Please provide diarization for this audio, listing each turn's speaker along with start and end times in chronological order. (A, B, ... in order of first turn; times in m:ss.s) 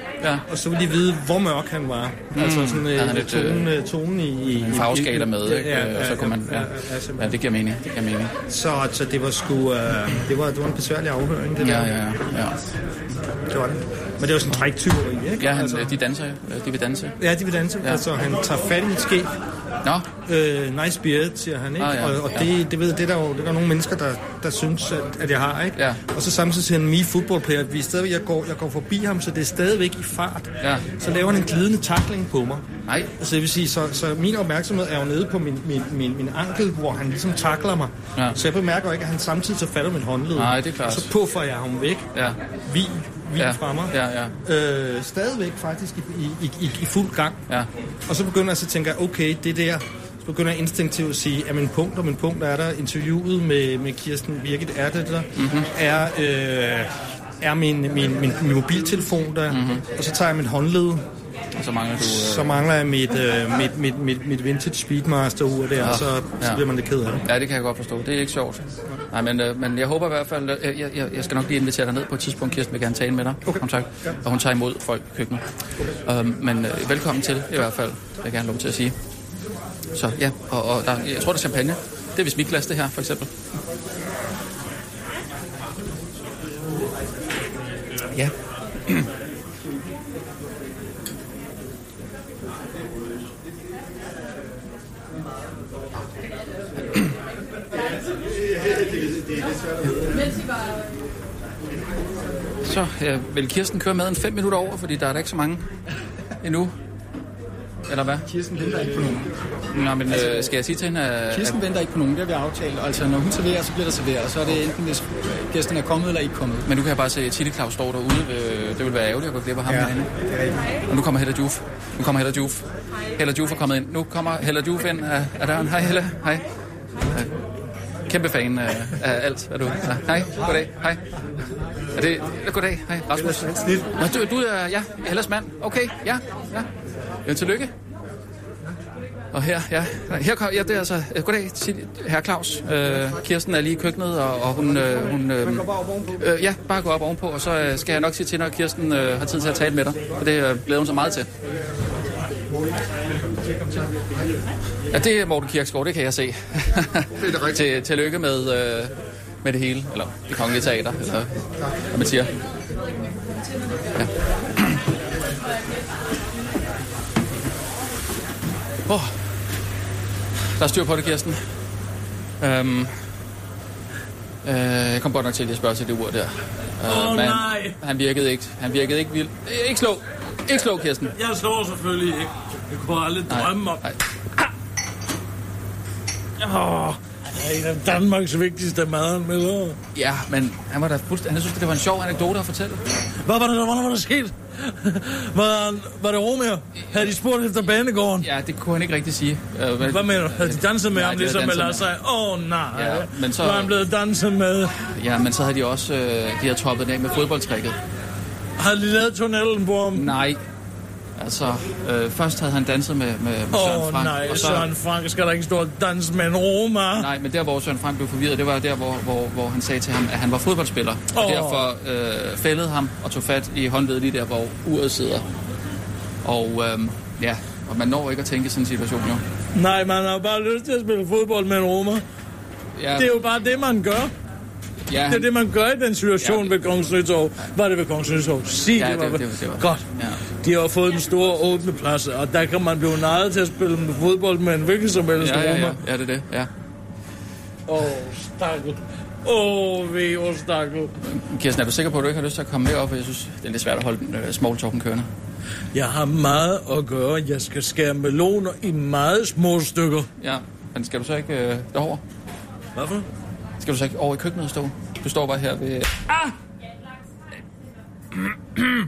0:00.5-0:07.3 A
0:02.3-0:03.7 B
0:04.6-0:08.3 B
0:08.5-0:11.9 A
0:11.6-0:12.6 B
0:13.5-0:15.9 A
0:15.4-0:17.2 B
0:17.2-0:19.3 A
0:20.2-0:32.7 A
0:21.8-0:22.5 B
0:25.8-0:26.0 B
0:30.6-0:30.9 B
0:32.9-0:33.1 B
0:33.2-0:42.1 A
0:40.4-0:41.1 B
0:42.6-0:47.4 A
0:43.4-0:44.4 B
0:48.1-1:01.0 A
0:55.4-0:55.7 B
0:59.5-0:59.8 B
1:01.6-1:02.6 B
1:02.0-1:07.2 A
1:05.8-1:06.6 B
1:07.2-1:15.4 B
1:16.0-1:19.0 B
1:19.9-1:23.3 B
1:42.6-1:45.7 B
1:46.4-1:46.7 B
1:47.9-1:48.3 B
1:48.2-1:49.3 C
1:49.7-1:51.6 B
1:50.1-1:50.5 C
1:51.3-1:56.7 C
1:56.7-2:00.1 B
1:59.7-2:00.7 C
2:00.9-2:02.6 B
2:03.2-2:06.4 B
2:08.1-2:11.0 B
2:11.9-2:16.7 B
2:13.2-2:13.9 A
2:17.2-2:17.7 B
2:19.3-2:31.3 B
2:25.0-2:26.2 A
2:34.9-2:41.3 B
2:41.9-2:42.3 B
2:44.0-2:44.8 B
2:48.9-2:49.3 B
2:50.6-2:51.4 B
2:52.4-2:53.1 B
2:54.4-3:01.1 B
2:56.9-2:57.8 D
3:01.2-3:03.9 D
3:03.3-3:04.0 B
3:06.4-3:09.8 D
3:10.0-3:12.8 B
3:13.2-3:18.3 D
3:18.2-3:21.9 B
3:19.8-3:24.8 D
3:22.7-3:23.7 B
3:24.8-3:27.8 B
3:28.6-3:30.2 D
3:29.9-3:30.4 B
3:31.2-3:34.7 B
3:33.5-3:37.1 D
3:37.0-3:45.3 B
3:41.1-3:41.7 D
3:46.2-3:49.2 B
3:49.6-3:52.0 D
3:52.8-3:53.1 B
3:53.0-3:54.1 D
3:54.9-3:55.3 B
3:55.1-4:05.8 D
3:56.2-3:56.5 B
3:58.8-4:00.2 B
4:05.2-4:06.5 B
4:07.7-4:11.0 D
4:11.1-4:15.1 B
4:15.7-4:20.1 D
4:20.2-4:22.0 B
4:22.8-4:23.1 D
4:23.6-4:26.3 B